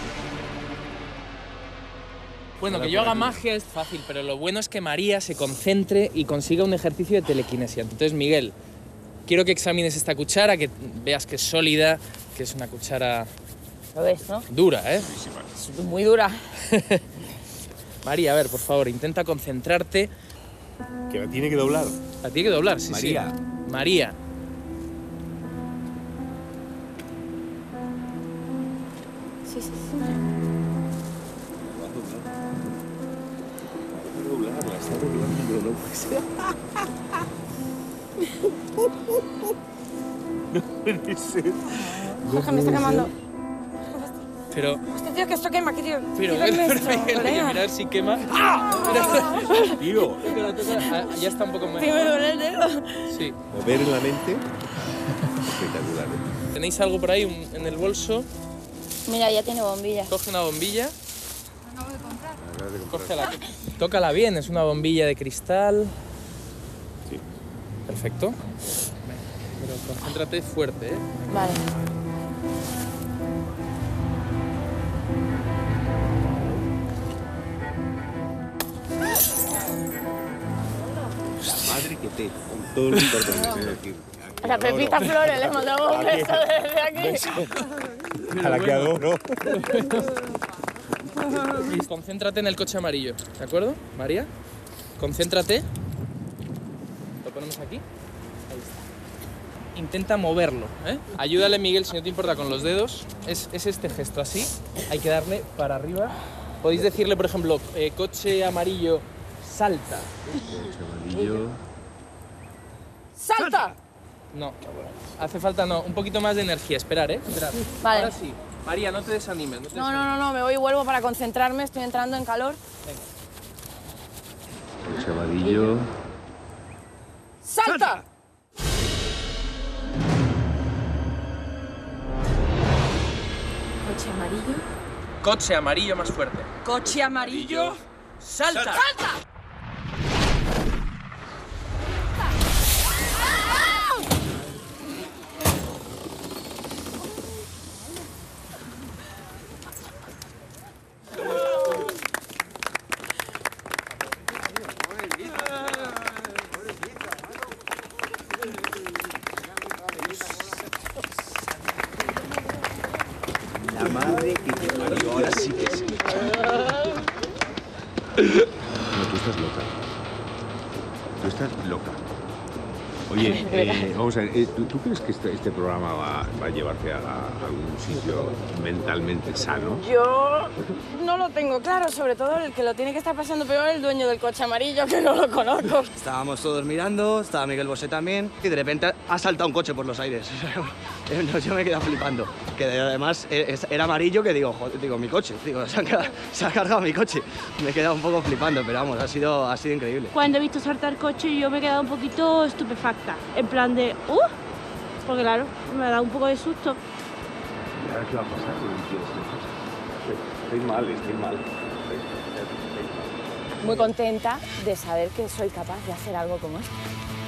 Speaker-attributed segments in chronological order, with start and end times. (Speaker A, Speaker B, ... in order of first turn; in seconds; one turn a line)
Speaker A: 2.6-8.6
Speaker B: 2.7-3.2
Speaker A: 9.3-13.3
Speaker C: 13.9-14.5
Speaker A: 14.5-15.1
Speaker D: 14.9-15.6
Speaker C: 15.6-16.5
Speaker A: 16.7-17.0
Speaker A: 18.0-20.1
Speaker D: 21.1-22.0
Speaker A: 22.2-24.1
Speaker D: 22.9-23.3
Speaker E: 29.5-30.1
Speaker D: 31.6-32.3
Speaker D: 33.9-36.8
Speaker D: 38.9-39.3
Speaker D: 40.5-43.1
Speaker C: 42.0-43.1
Speaker C: 43.9-44.1
Speaker A: 44.5-44.9
Speaker C: 44.9-47.6
Speaker A: 46.1-52.2
Speaker C: 48.9-49.8
Speaker D: 49.8-50.3
Speaker C: 51.8-53.1
Speaker A: 53.1-53.4
Speaker D: 53.5-54.5
Speaker D: 55.4-56.3
Speaker A: 56.5-58.3
Speaker C: 59.1-60.1
Speaker A: 60.1-61.0
Speaker D: 62.3-63.3
Speaker A: 62.9-66.0
Speaker A: 67.9-68.4
Speaker A: 69.0-71.3
Speaker C: 71.3-71.6
Speaker D: 81.4-87.5
Speaker C: 84.4-87.5
Speaker A: 88.3-90.2
Speaker D: 88.3-89.6
Speaker A: 91.5-94.3
Speaker A: 95.0-95.7
Speaker A: 97.2-97.8
Speaker A: 98.5-98.8
Speaker A: 99.8-110.4
Speaker D: 110.4-111.6
Speaker C: 113.2-113.8
Speaker A: 114.3-114.6
Speaker D: 114.7-115.0
Speaker A: 115.2-120.1
Speaker C: 117.8-118.1
Speaker C: 119.8-122.6
Speaker D: 124.8-125.9
Speaker C: 125.4-125.7
Speaker C: 127.4-128.0
Speaker C: 133.8-134.6
Speaker A: 135.2-136.5
Speaker C: 136.6-137.8
Speaker D: 136.8-137.7
Speaker A: 138.2-138.8
Speaker C: 138.7-139.1
Speaker D: 163.8-165.8
Speaker D: 168.9-169.8
Speaker D: 171.2-172.1
Speaker D: 173.1-179.8
Speaker C: 173.2-173.9
Speaker C: 179.8-185.9
Speaker B: 186.0-200.1
Speaker E: 200.1-204.3
Speaker E: 205.0-206.8
Speaker D: 207.8-209.5
Speaker D: 210.0-213.7
Speaker C: 213.6-216.7